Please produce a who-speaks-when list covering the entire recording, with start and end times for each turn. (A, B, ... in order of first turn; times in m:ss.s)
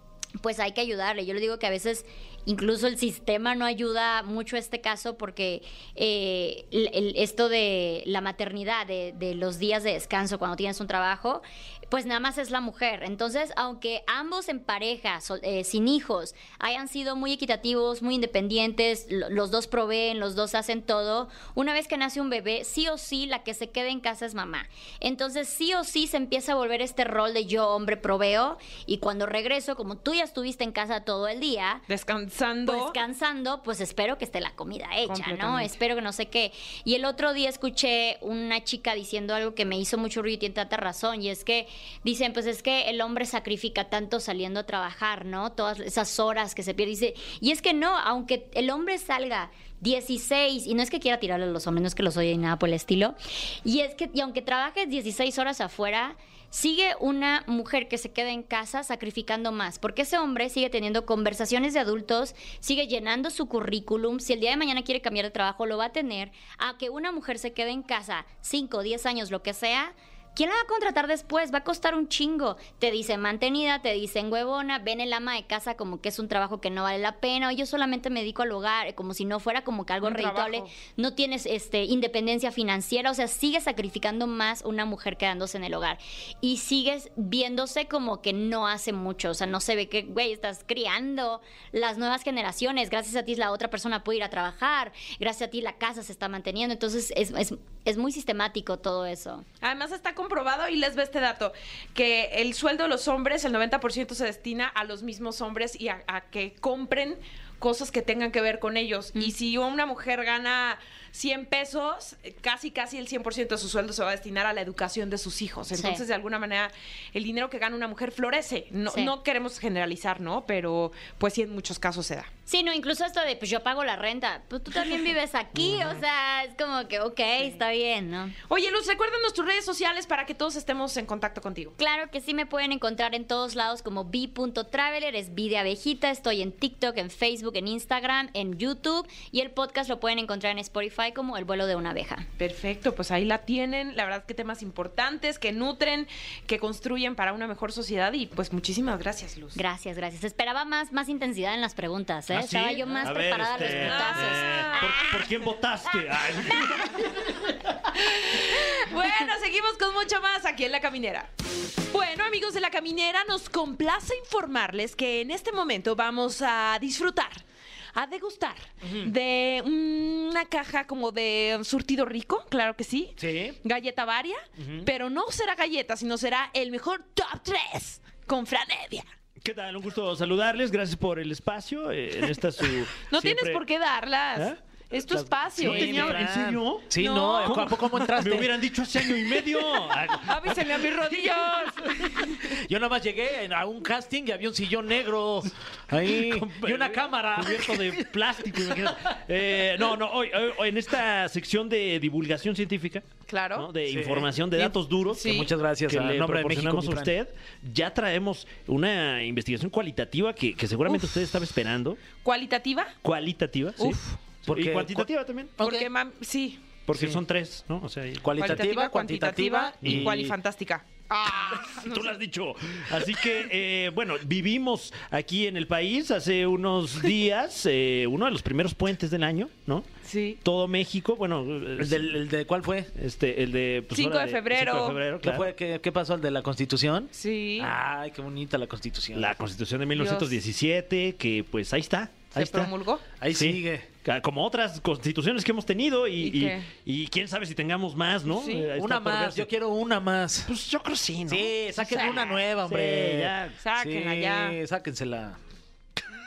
0:00.4-0:31.8 A
0:31.9-0:33.0 B
0:32.6-1:39.4 A
0:35.0-0:35.7 B
1:20.0-1:20.7 B
1:39.6-2:02.3 B
1:55.7-1:56.0 A
1:58.9-1:59.1 A
2:02.5-2:08.3 A
2:08.5-2:11.7 B
2:11.8-2:22.3 A
2:22.4-2:29.6 B
2:29.5-2:35.2 A
2:32.3-2:37.0 C
2:33.6-2:35.2 B
2:36.6-2:37.3 B
2:37.9-2:41.3 B
2:41.9-2:47.4 B
2:47.9-2:59.0 B
2:48.8-2:49.1 D
2:53.2-2:53.6 D
2:54.6-2:54.9 D
2:59.4-3:03.6 C
3:03.1-3:06.2 B
3:05.1-3:08.5 D
3:05.6-3:10.8 C
3:07.0-3:08.4 B
3:10.3-3:12.5 B
3:11.3-3:19.2 D
3:16.1-3:23.0 C
3:23.3-3:23.7 B
3:23.5-3:32.0 C
3:23.8-3:24.3 D
3:24.6-3:25.5 B
3:25.2-3:27.1 D
3:32.2-3:32.9 B
3:33.0-3:35.5 C
3:33.8-3:34.2 B
3:34.4-3:35.9 D
3:35.6-3:36.7 B
3:36.8-3:38.5 C
3:36.9-3:37.2 D
3:38.2-3:40.3 D
3:38.4-3:42.1 B
3:39.8-3:40.3 C
3:41.5-3:49.8 C
3:50.0-3:50.4 B
3:50.4-3:52.2 C
3:51.8-3:52.9 D
3:53.0-3:55.5 C
3:53.9-3:55.0 B
3:55.2-3:59.3 D
3:57.1-3:57.7 B
3:59.1-4:02.7 C
4:00.0-4:00.3 B
4:02.3-4:03.0 B
4:03.2-4:03.9 D
4:03.3-4:09.5 C
4:06.2-4:06.6 B
4:08.3-4:08.7 B
4:08.7-4:10.5 D
4:10.5-4:13.6 C
4:11.3-4:15.4 D
4:11.8-4:12.4 B
4:13.6-4:14.6 B